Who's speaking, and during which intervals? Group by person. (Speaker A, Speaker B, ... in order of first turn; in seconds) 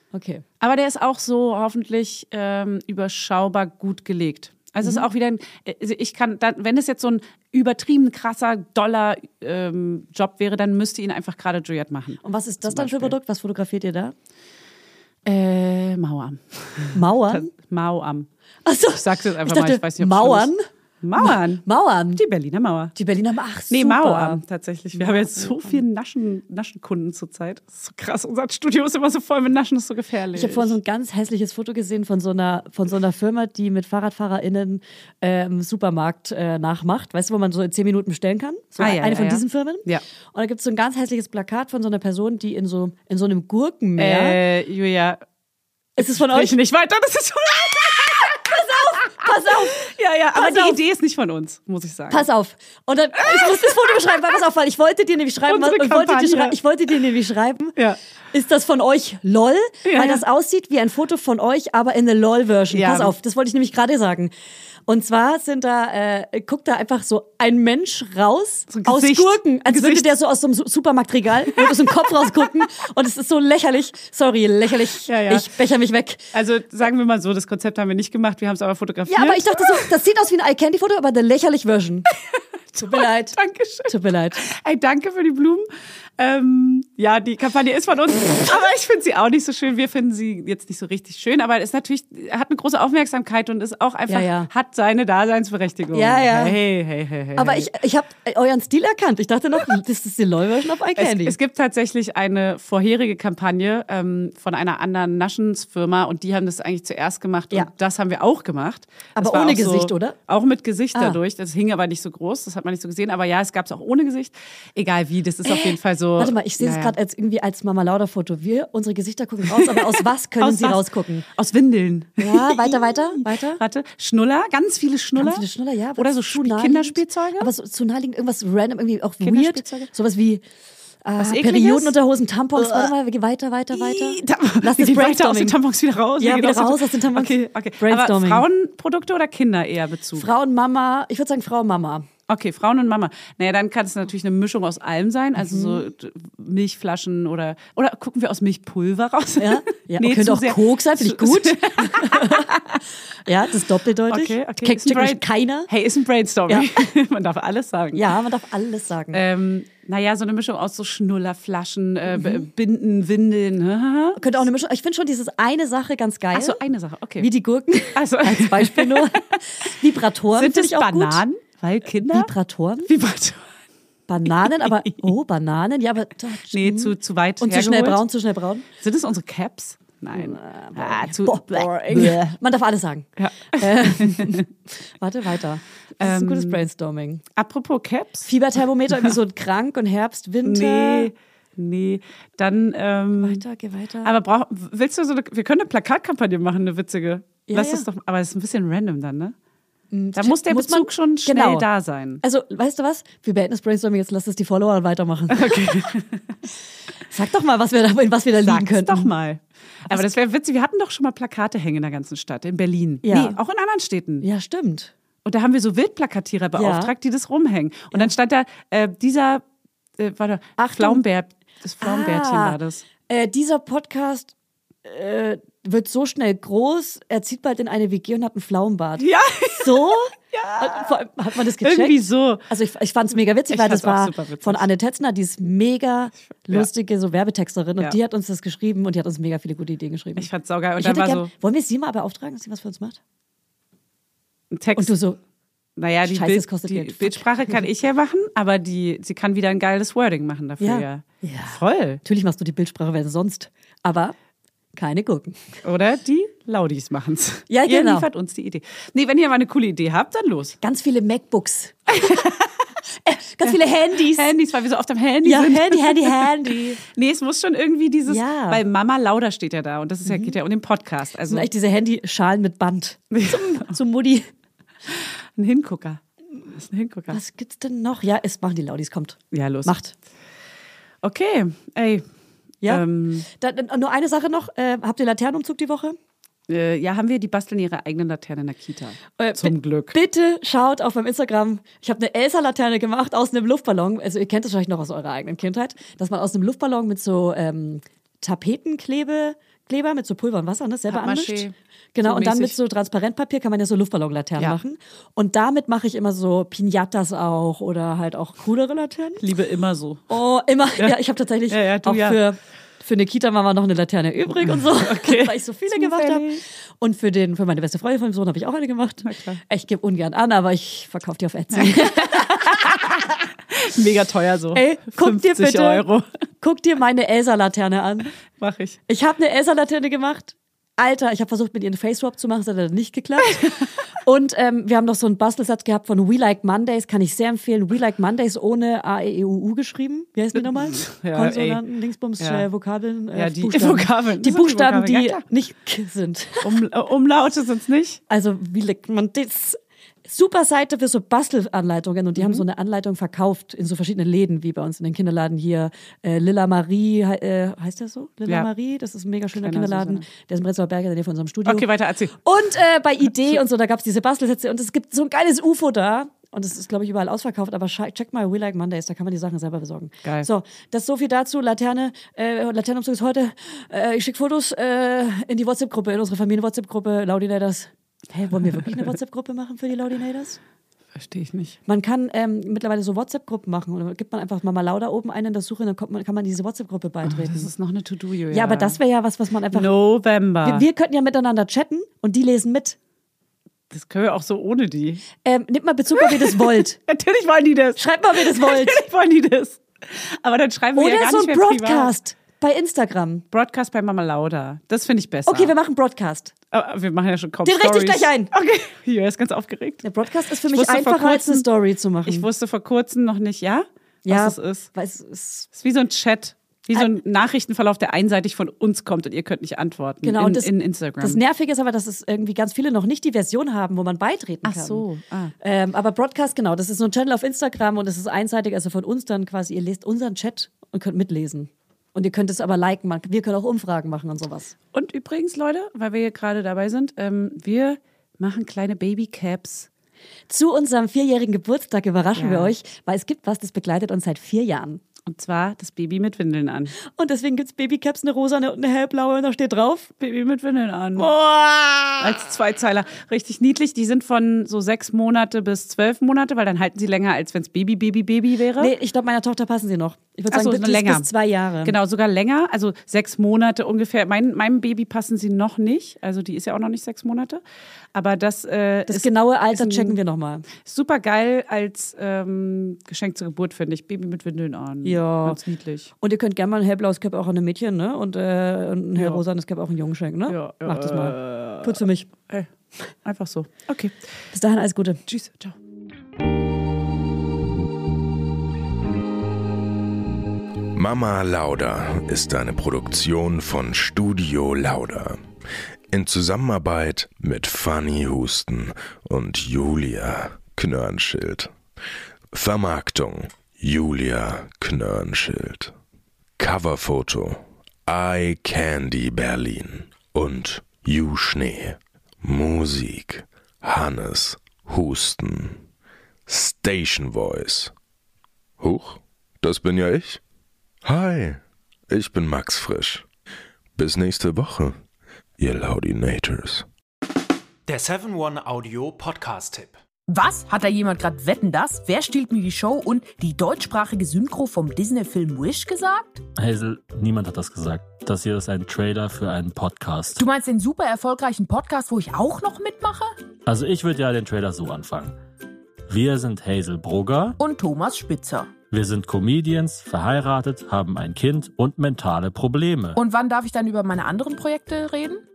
Speaker A: 0.1-0.4, 4.8-5.1, 12.2-14.1, 16.9-17.5, 18.6-20.6, 21.2-22.2, 22.9-24.4, 24.9-25.8, 30.3-44.4, 46.0-46.6, 48.4-49.8, 50.3-50.8, 52.1-57.8, 58.3-64.3, 64.9-76.3, 79.1-82.1, 82.8-84.4, 94.1-94.5, 95.9-96.6, 97.4-101.4, 109.2-110.2, 111.0-111.2, 115.5-121.2, 122.2-123.6, 125.2-130.4, 131.0-135.6, 136.2-138.5, 140.1-142.1, 145.4-145.9, 149.4-152.5, 153.2-155.7, 156.5-156.9, 157.9-159.2, 162.1-162.5, 164.2-166.6, 167.2-171.2, 172.1-172.9, 174.1-178.7, 180.1-187.2, 188.3-191.1, 193.2-194.1, 197.5-197.9, 199.9-201.7, 202.2-205.8, 207.1-209.1, 209.9-210.1, 213.0-213.4, 214.2-214.9, 216.6-216.9, 220.6-221.0, 221.8-243.0, 244.8-245.2, 246.1-247.6, 250.6-254.2, 254.8-255.4, 257.5-258.1, 260.6-261.8, 263.0-264.3, 265.2-266.8, 268.1-268.6, 270.1-270.4, 271.3-274.3, 277.1-279.9, 282.6-286.0, 289.2-309.2, 310.1-323.0, 324.5-325.9, 326.4-328.1, 328.9-346.6, 348.1-380.4, 381.7-387.5, 388.3-389.7, 390.4-392.8, 395.2-396.8, 397.8-398.9, 400.8-403.2, 405.3-406.3, 407.4-408.3, 409.8-412.3, 414.1-415.5, 420.0-424.9, 425.4-434.5, 440.3-444.8, 446.8-449.9, 451.0-452.2, 458.6-461.8, 468.9-470.5, 474.8-475.4, 476.0-482.1, 484.3-485.0
Speaker B: 0.6-13.2, 15.3-18.3, 18.9-22.9, 23.7-30.8, 38.8-40.0, 44.0-45.2, 46.0-52.3, 53.3-54.0, 55.5-56.6, 59.8-60.2, 62.7-63.1, 68.7-70.1, 71.5-72.3, 75.0-75.5, 76.3-79.9, 82.7-85.7, 86.2-97.7, 101.0-117.0, 119.5-125.5, 126.0-127.5, 129.2-129.9, 131.2-131.9, 132.6-132.9, 133.7-140.3, 142.3-152.8, 154.1-158.1, 159.1-164.4, 166.3-167.3, 167.9-169.7, 170.3-172.3, 172.8-173.5, 174.3-175.1, 176.5-178.0, 178.8-182.3, 183.2-184.5, 186.0-186.7, 187.4-188.3, 190.4-193.4, 194.0-199.3, 200.1-202.2, 205.3-206.3, 208.4-214.3, 215.2-219.4, 220.0-222.8, 229.0-231.0, 231.6-232.4, 233.5-234.7, 236.3-236.7, 240.2-241.3, 244.5-244.9, 245.8-252.0, 255.6-260.6, 261.9-262.7, 264.1-271.5, 273.1-273.7, 274.9-277.2, 279.3-279.7, 281.0-282.1, 282.6-283.3, 286.5-290.0, 300.9-302.6, 309.2-310.1, 311.5-312.2, 314.5-316.4, 319.0-319.4, 321.5-326.1, 328.4-328.8, 333.4-333.7, 340.4-341.6, 342.2-342.5, 343.1-345.2, 346.4-348.0, 352.2-352.4, 359.3-360.1, 361.4-362.2, 370.0-370.3, 378.6-378.8, 380.9-381.6, 387.1-388.8, 389.5-390.7, 393.7-395.1, 396.0-401.9, 403.3-405.5, 406.5-409.9, 410.5-411.5, 412.1-414.7, 415.5-421.2, 424.4-425.3, 434.7-439.7, 442.2-442.5, 445.1-446.8, 450.0-451.1, 452.0-458.8, 460.3-461.1, 461.6-467.4, 467.9-470.0, 470.6-475.9, 478.9-479.2, 480.3-482.5, 483.0-484.0, 485.1-485.6
Speaker C: 490.8-495.2, 495.9-501.5, 502.3-505.7, 506.4-515.6, 516.3-517.7, 518.6-520.2, 520.8-523.0, 523.8-524.8, 525.4-526.7
Speaker D: 527.7-529.8
Speaker E: 530.1-536.2, 540.2-543.1, 547.4-548.5, 553.0-555.2
Speaker F: 536.4-540.2, 543.5-545.1, 545.9-547.4, 548.7-553.0